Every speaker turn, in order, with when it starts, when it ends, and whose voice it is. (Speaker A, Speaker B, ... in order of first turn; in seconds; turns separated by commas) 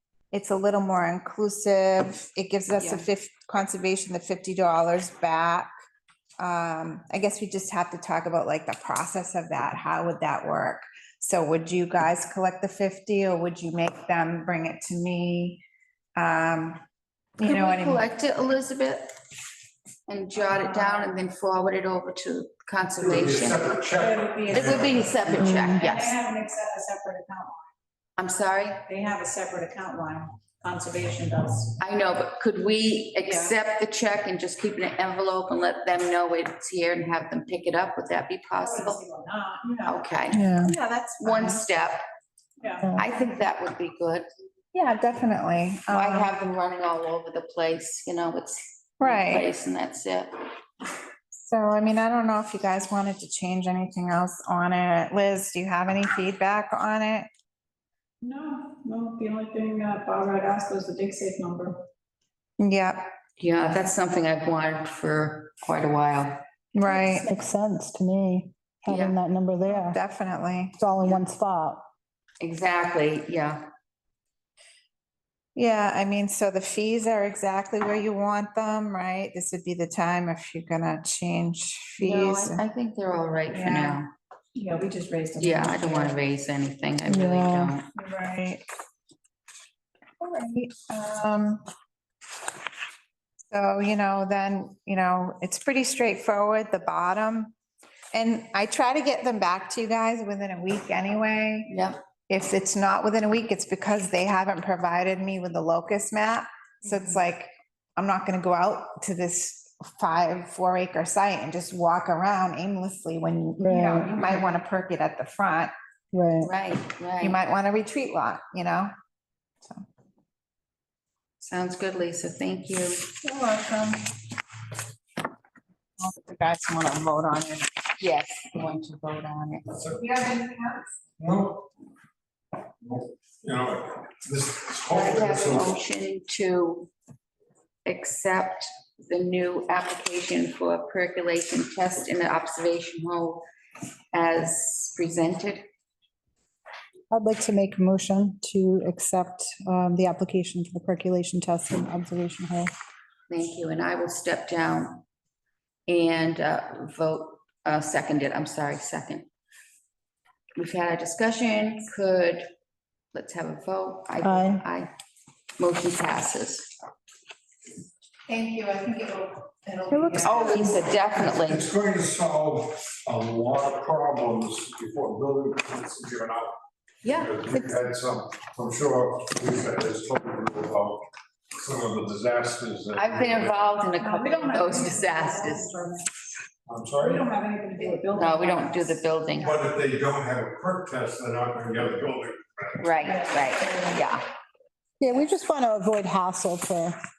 Speaker A: 0.3-5.7, Speaker B: 2.8-3.1, Speaker A: 6.4-15.6, Speaker A: 16.1-16.8, Speaker A: 17.4-18.0, Speaker B: 17.4-19.1, Speaker B: 20.1-23.8, Speaker C: 20.4-21.1, Speaker D: 23.0-25.1, Speaker C: 23.9-24.7, Speaker B: 24.5-26.2, Speaker E: 25.3-25.8, Speaker C: 25.3-27.6, Speaker B: 28.2-28.8, Speaker C: 28.9-31.8, Speaker B: 31.8-39.0, Speaker A: 33.2-33.5, Speaker C: 38.6-40.0, Speaker B: 39.8-40.4, Speaker E: 40.3-40.7, Speaker A: 40.6-41.6, Speaker B: 41.2-42.0, Speaker C: 42.6-42.9, Speaker B: 43.0-44.2, Speaker A: 44.7-46.3, Speaker B: 45.9-50.3, Speaker A: 49.0-49.5, Speaker A: 51.3-57.3, Speaker C: 58.2-61.8, Speaker A: 62.6-63.1, Speaker B: 63.4-66.4, Speaker A: 66.7-67.3, Speaker E: 67.2-70.0, Speaker B: 68.9-69.2, Speaker A: 69.7-70.8, Speaker E: 70.8-71.8, Speaker B: 72.4-73.6, Speaker A: 75.5-82.6, Speaker B: 82.0-84.1, Speaker A: 83.5-84.0, Speaker C: 84.5-86.2, Speaker B: 85.4-87.8, Speaker E: 87.1-87.8, Speaker A: 88.0-88.6, Speaker A: 90.2-91.6, Speaker A: 93.5-97.5, Speaker A: 98.1-101.7, Speaker B: 101.7-102.0, Speaker A: 102.3-115.7, Speaker E: 113.6-114.1, Speaker E: 116.1-116.5, Speaker B: 116.4-117.4, Speaker A: 117.2-118.9, Speaker B: 121.4-123.0, Speaker A: 123.2-124.1, Speaker A: 126.0-127.7, Speaker B: 128.0-129.7, Speaker D: 129.7-130.0, Speaker A: 129.9-130.9, Speaker D: 131.2-131.7, Speaker D: 132.8-135.7, Speaker B: 134.9-136.9, Speaker B: 137.8-143.4, Speaker B: 144.1-145.6, Speaker E: 147.1-152.7, Speaker B: 153.3-155.0, Speaker B: 155.9-159.3, Speaker B: 160.6-162.4, Speaker B: 163.1-164.9, Speaker E: 164.2-164.6, Speaker B: 165.6-166.7, Speaker A: 168.3-170.8, Speaker E: 169.9-170.8, Speaker B: 170.2-171.7, Speaker D: 171.2-183.6, Speaker B: 177.0-177.4, Speaker B: 182.9-185.8, Speaker C: 184.0-186.1, Speaker D: 186.7-187.3, Speaker C: 186.9-189.0, Speaker B: 188.1-189.6, Speaker D: 189.3-193.0, Speaker B: 192.8-194.2, Speaker C: 193.0-194.0, Speaker E: 195.0-196.9